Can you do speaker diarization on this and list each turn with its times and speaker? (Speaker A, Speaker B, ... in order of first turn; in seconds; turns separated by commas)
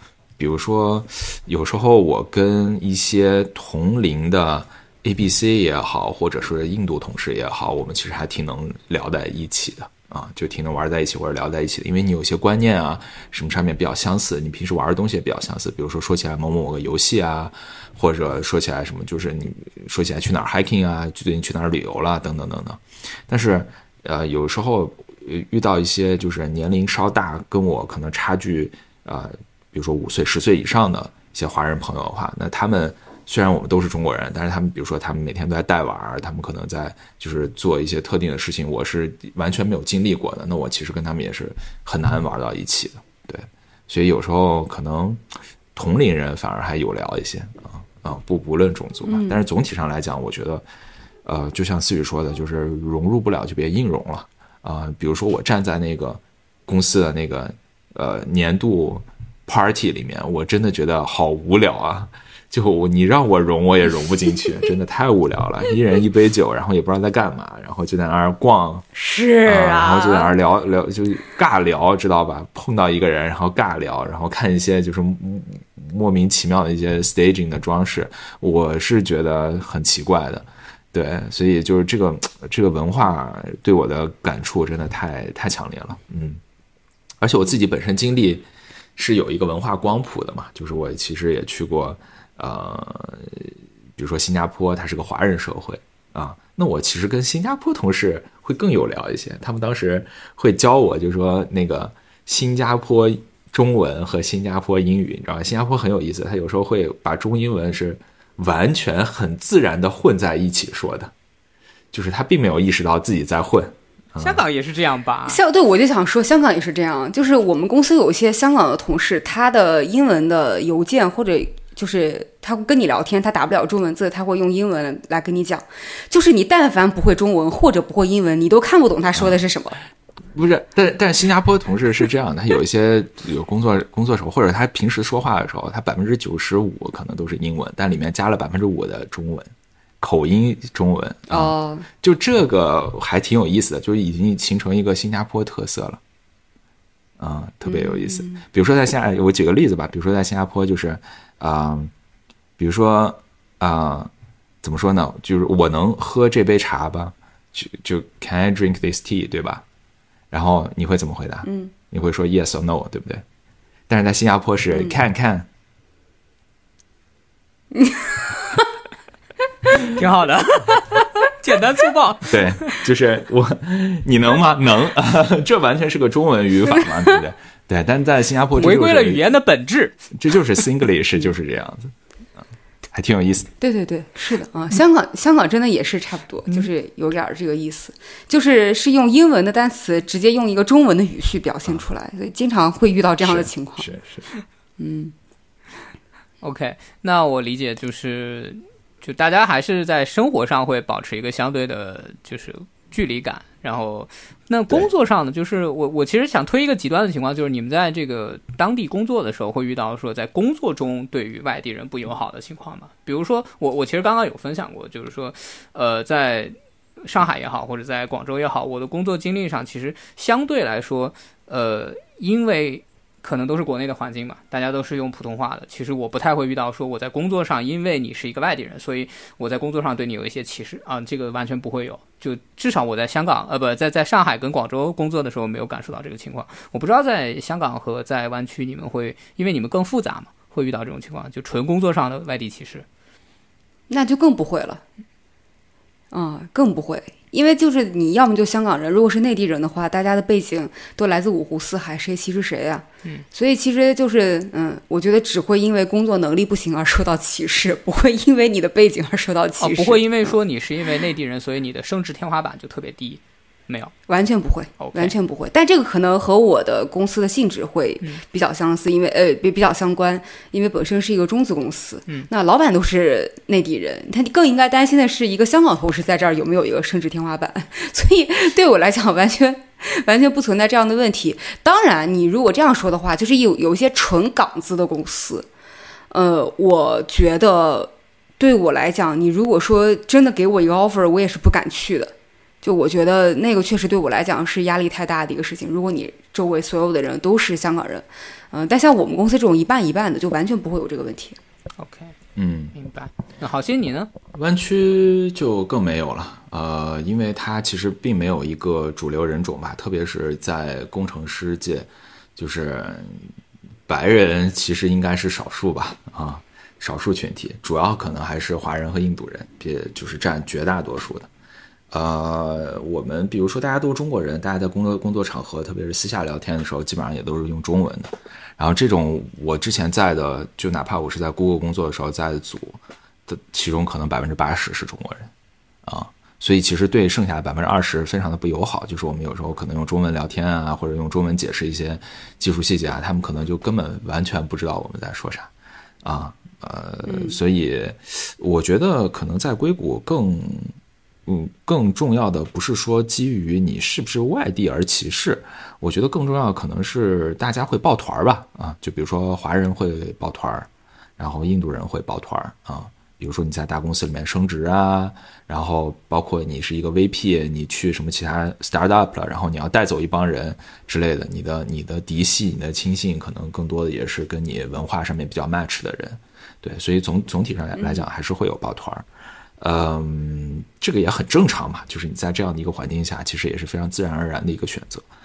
Speaker A: 0.4-45.2, Speaker A: 45.7-50.6, Speaker B: 49.1-49.4, Speaker A: 51.2-68.8, Speaker B: 68.9-70.3, Speaker A: 69.4-86.4, Speaker A: 87.2-111.1, Speaker A: 111.9-114.4, Speaker C: 114.2-115.4, Speaker B: 115.2-129.8, Speaker A: 130.3-146.0, Speaker B: 141.3-141.9, Speaker A: 147.2-151.9, Speaker B: 147.6-148.4, Speaker A: 152.6-154.1, Speaker A: 154.6-159.6, Speaker A: 160.3-163.2, Speaker B: 161.4-161.7, Speaker A: 163.9-165.5, Speaker B: 167.7-168.6, Speaker C: 169.9-172.7, Speaker A: 172.3-179.2, Speaker C: 178.6-180.0, Speaker A: 180.1-181.9, Speaker A: 182.9-183.5, Speaker B: 183.6-193.9, Speaker A: 193.2-194.2, Speaker B: 194.8-195.1, Speaker C: 196.4-242.8, Speaker B: 243.9-244.8, Speaker B: 246.1-260.0, Speaker C: 259.6-263.9, Speaker B: 264.1-285.5, Speaker C: 264.8-265.1, Speaker B: 286.1-301.4, Speaker C: 301.8-302.1, Speaker A: 302.4-302.7, Speaker C: 302.7-304.1, Speaker A: 304.3-313.3, Speaker A: 313.9-321.3, Speaker A: 321.9-335.3, Speaker A: 335.9-345.5, Speaker A: 346.0-350.7, Speaker B: 347.1-347.4, Speaker A: 351.2-379.0, Speaker B: 377.8-378.0, Speaker A: 379.6-385.1